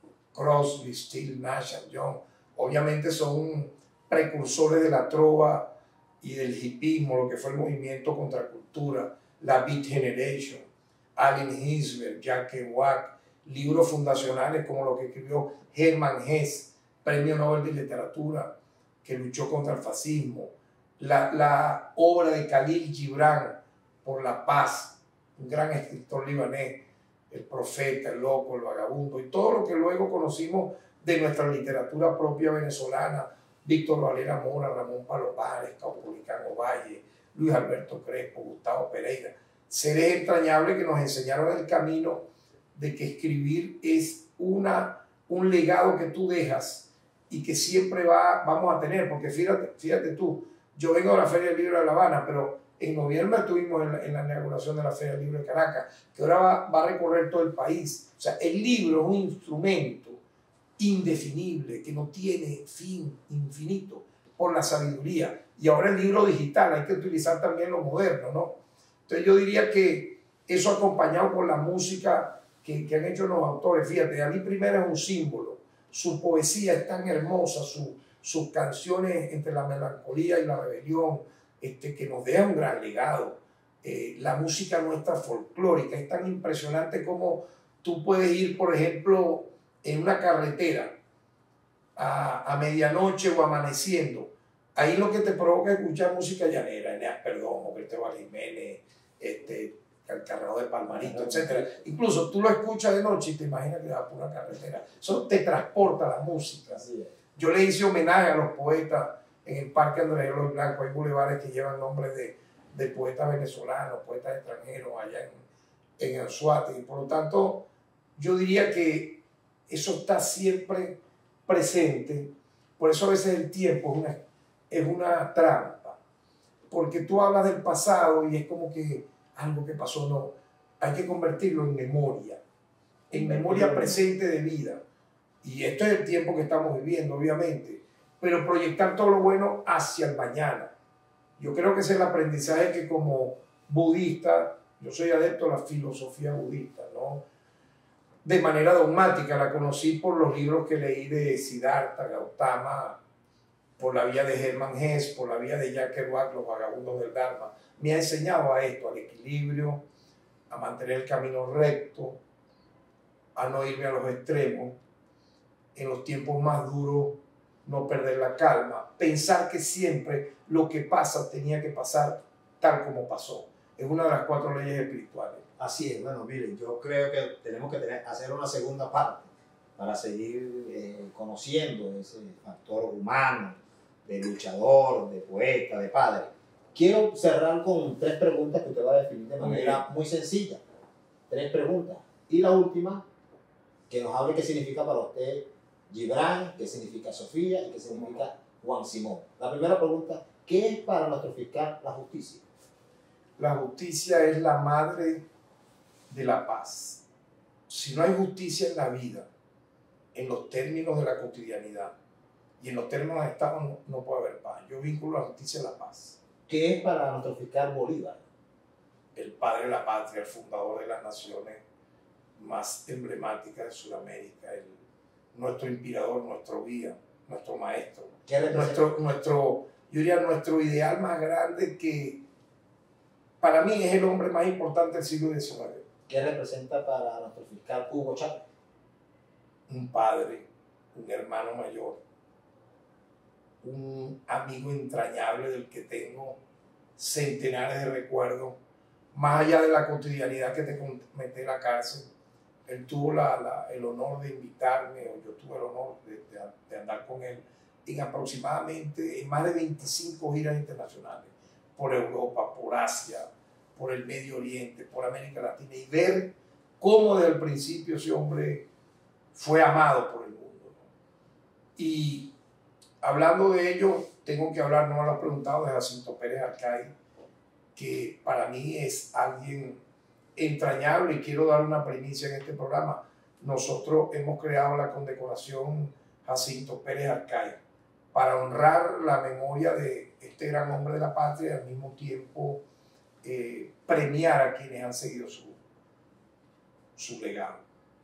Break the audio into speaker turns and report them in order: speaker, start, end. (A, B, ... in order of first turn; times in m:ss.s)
0:00.3-1:00.2 A
1:00.8-1:31.0 A
1:32.0-1:55.4 A
1:40.9-1:41.8 B
1:46.8-1:47.1 B
1:56.0-2:06.0 A
2:06.7-2:12.4 A
2:13.1-2:14.8 A
2:13.1-2:14.0 B
2:15.4-2:20.7 A
2:21.4-2:27.2 A
2:28.2-2:33.0 A
2:33.8-2:39.8 A
2:40.5-2:42.2 A
2:43.4-2:44.8 A
2:45.8-2:55.5 A
2:55.6-3:10.6 B
3:09.4-3:09.8 A
3:11.3-3:13.0 B
3:13.9-3:22.4 B
3:23.4-3:25.3 A
3:26.1-3:27.0 A
3:27.7-3:29.3 A
3:30.1-3:31.9 A
3:32.6-3:36.2 A
3:36.5-3:38.2 B
3:39.2-3:41.6 A
3:42.4-3:44.8 A
3:45.3-3:52.2 A
3:48.3-3:48.9 B
3:53.4-3:55.8 A
3:56.1-3:58.5 B
3:59.7-4:02.0 A
4:03.6-4:06.4 A
4:07.0-4:08.6 A
4:09.1-4:12.1 A
4:12.7-4:28.7 A
4:29.3-4:30.8 A
4:31.8-4:32.3 A
4:33.0-4:37.0 A
4:37.8-4:39.8 A
4:40.4-4:47.6 A
4:48.1-4:52.6 A
4:53.2-4:55.6 A
4:57.0-4:57.6 A